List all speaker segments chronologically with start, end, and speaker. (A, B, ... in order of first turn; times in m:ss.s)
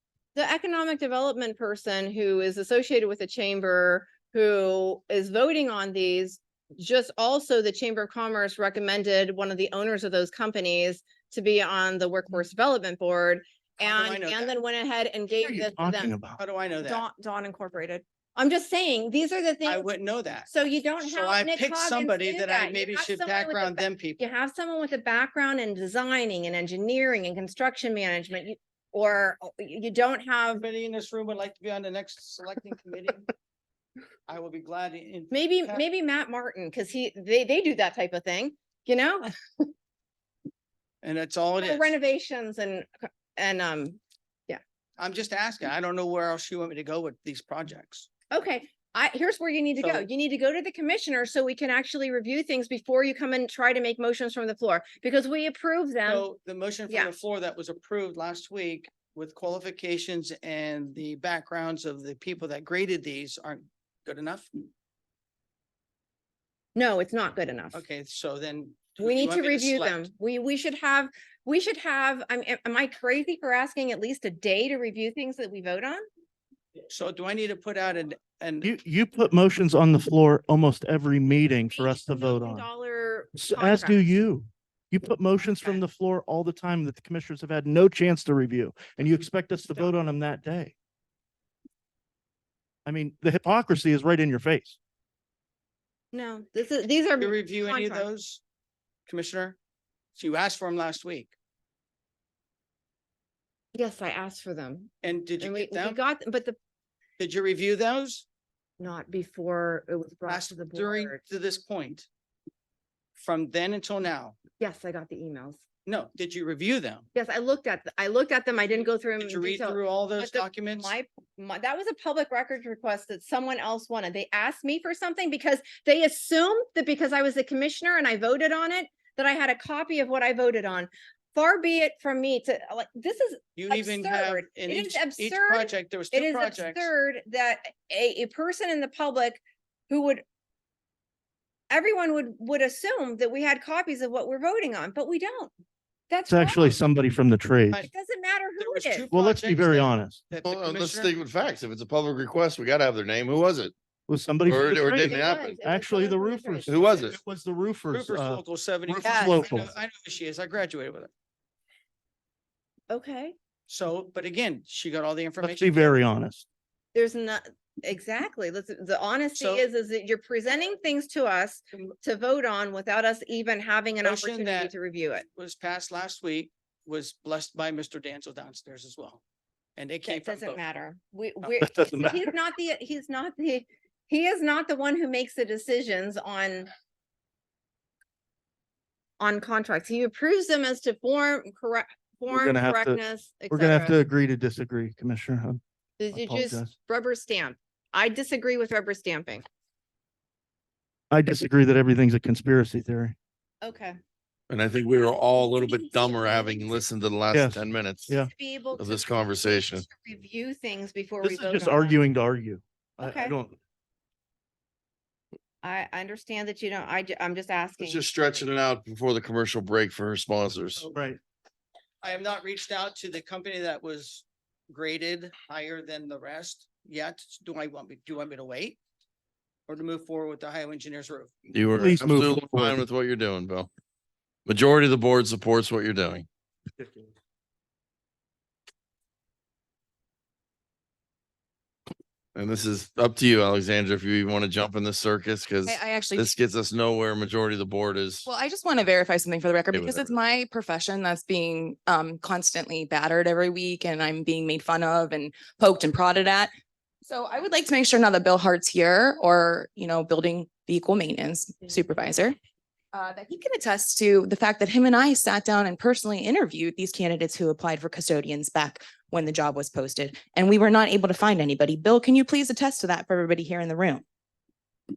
0:00.4-0:16.1 A
0:13.8-0:14.6 B
0:15.4-0:16.4 C
0:16.4-0:17.0 B
0:16.8-0:19.9 A
0:19.6-0:20.5 B
0:20.4-0:30.6 A
0:21.0-0:24.2 B
0:30.6-0:33.3 B
0:34.3-0:35.8 B
0:35.3-0:39.7 A
0:41.0-0:42.0 B
0:41.6-0:44.6 A
0:45.0-0:48.1 B
0:48.3-0:56.3 A
0:49.8-0:50.1 B
0:56.0-1:04.5 B
0:56.9-0:57.1 A
1:06.8-1:07.8 A
1:07.7-1:10.1 B
1:09.0-1:16.0 A
1:16.9-1:18.7 B
1:18.6-1:22.7 C
1:21.7-1:24.2 A
1:23.4-1:30.7 C
1:32.9-1:34.8 C
1:36.1-1:38.1 A
1:37.2-1:38.4 B
1:39.1-1:39.6 B
1:40.2-1:41.3 B
1:43.7-1:46.6 A
1:45.0-1:46.0 B
1:47.2-1:48.2 B
1:48.8-1:51.2 A
1:50.3-1:52.1 B
1:53.2-1:54.4 B
1:54.6-1:55.6 A
1:55.9-1:57.1 B
1:57.1-2:20.2 A
1:59.2-2:01.0 B
2:13.6-2:16.9 B
2:21.7-2:25.5 A
2:26.1-2:26.8 A
2:26.3-2:27.9 C
2:27.9-2:29.1 A
2:28.6-2:31.1 B
2:29.1-2:30.2 C
2:30.5-2:33.7 D
2:34.1-2:39.8 C
2:34.5-2:35.6 D
2:34.9-2:37.2 A
2:36.7-2:37.2 D
2:37.9-2:41.1 B
2:39.0-2:39.5 A
2:42.9-2:43.4 A
2:43.7-2:46.0 B
2:45.4-2:46.4 C
2:46.9-2:55.3 A
2:49.4-2:49.7 B
2:54.0-2:54.7 B
2:55.4-2:59.2 B
2:59.8-3:00.6 B
3:00.1-3:06.7 A
3:01.5-3:02.3 C
3:09.2-3:14.0 A
3:12.3-3:15.6 C
3:16.0-3:19.4 A
3:16.1-3:16.7 C
3:21.1-3:23.2 C
3:23.6-3:24.0 A
3:24.5-3:28.2 D
3:25.3-3:26.8 A
3:27.3-3:28.3 C
3:28.1-3:32.0 A
3:28.8-3:29.8 D
3:31.2-3:33.6 C
3:33.0-3:33.4 A
3:35.6-3:38.0 A
3:37.8-3:40.9 D
3:40.8-3:41.2 C
3:42.0-3:48.8 B
3:49.7-3:51.3 B
3:51.5-3:53.7 D
3:51.7-3:52.8 C
3:54.5-3:56.3 D
4:02.4-4:08.2 D
4:05.6-4:06.3 E
4:08.2-4:16.5 E
4:09.7-4:10.1 D
4:17.0-4:22.4 E
4:22.9-4:34.0 E